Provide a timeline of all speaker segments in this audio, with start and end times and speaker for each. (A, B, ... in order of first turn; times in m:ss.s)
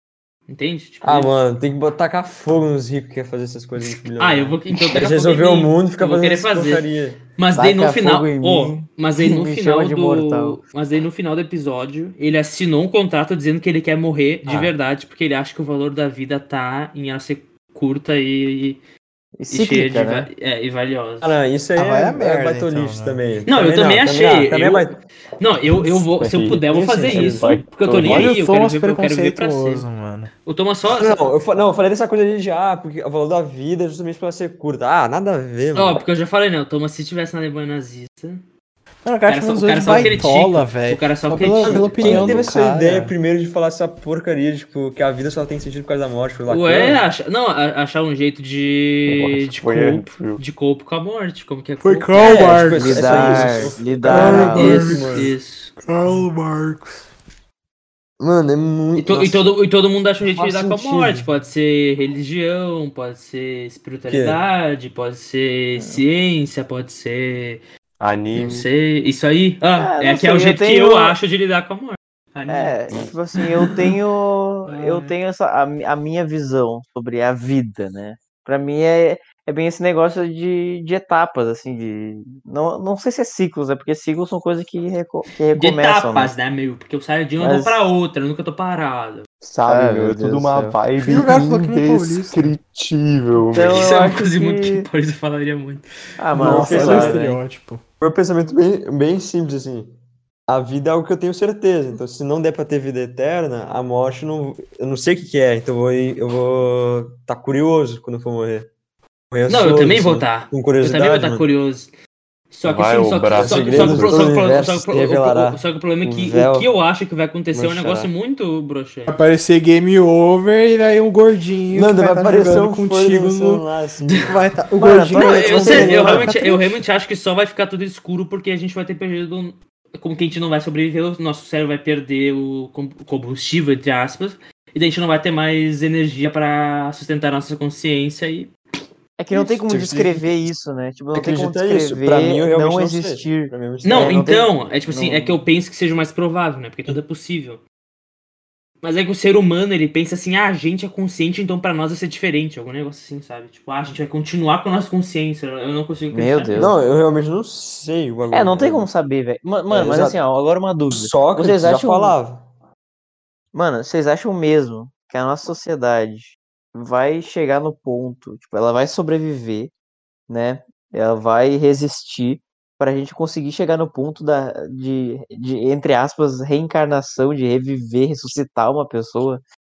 0:00.5-0:01.3 A
0:01.0-0:07.2 B
0:03.8-0:06.8 A
0:07.4-0:18.8 A
0:07.6-0:10.6 C
0:14.4-0:14.7 C
0:19.4-0:20.3 C
0:19.5-0:21.3 A
0:21.2-0:25.0 B
0:21.7-0:23.2 D
0:23.5-0:29.9 A
0:26.2-0:28.3 E
0:26.7-0:27.4 B
0:28.0-0:30.3 D
0:30.4-0:31.3 A
0:30.9-0:36.0 B
0:35.7-0:38.4 A
0:39.0-0:43.1 D
0:39.3-0:42.4 A
0:41.6-0:47.0 B
0:46.5-0:52.6 A
0:49.1-0:50.4 E
0:51.8-0:57.1 D
0:52.2-0:55.3 B
0:52.7-0:55.0 C
0:54.2-0:55.8 A
0:58.2-0:59.6 B
0:58.9-1:07.6 A
1:00.2-1:01.3 B
1:04.1-1:04.4 B
1:08.0-1:08.7 E
1:08.3-1:12.8 A
1:09.8-1:11.2 C
1:12.5-1:26.3 C
1:14.7-1:15.1 A
1:25.5-1:29.3 A
1:27.4-1:27.8 C
1:29.4-1:33.9 E
1:29.6-1:30.8 C
1:31.0-1:32.5 D
1:33.5-1:34.9 C
1:33.7-1:35.8 A
1:36.2-1:37.3 C
1:36.3-1:37.8 D
1:36.4-1:37.3 B
1:38.0-1:39.9 B
1:40.5-1:48.7 B
1:49.3-1:51.5 B
1:49.5-1:51.9 A
1:52.5-1:59.2 A
1:52.6-1:54.2 E
1:53.3-1:56.7 B
1:57.5-1:58.1 B
1:59.1-2:03.6 D
2:01.7-2:04.5 B
2:04.2-2:06.7 D
2:04.8-2:06.2 C
2:05.2-2:18.5 A
2:19.2-2:25.4 C
2:19.3-2:20.3 B
2:21.1-2:24.2 B
2:23.8-2:27.6 A
2:28.8-2:36.7 A
2:36.1-2:36.8 C
2:36.6-2:38.9 B
2:38.3-2:42.2 C
2:39.7-2:40.2 B
2:40.9-2:42.4 B
2:43.5-2:49.7 C
2:50.3-2:59.4 C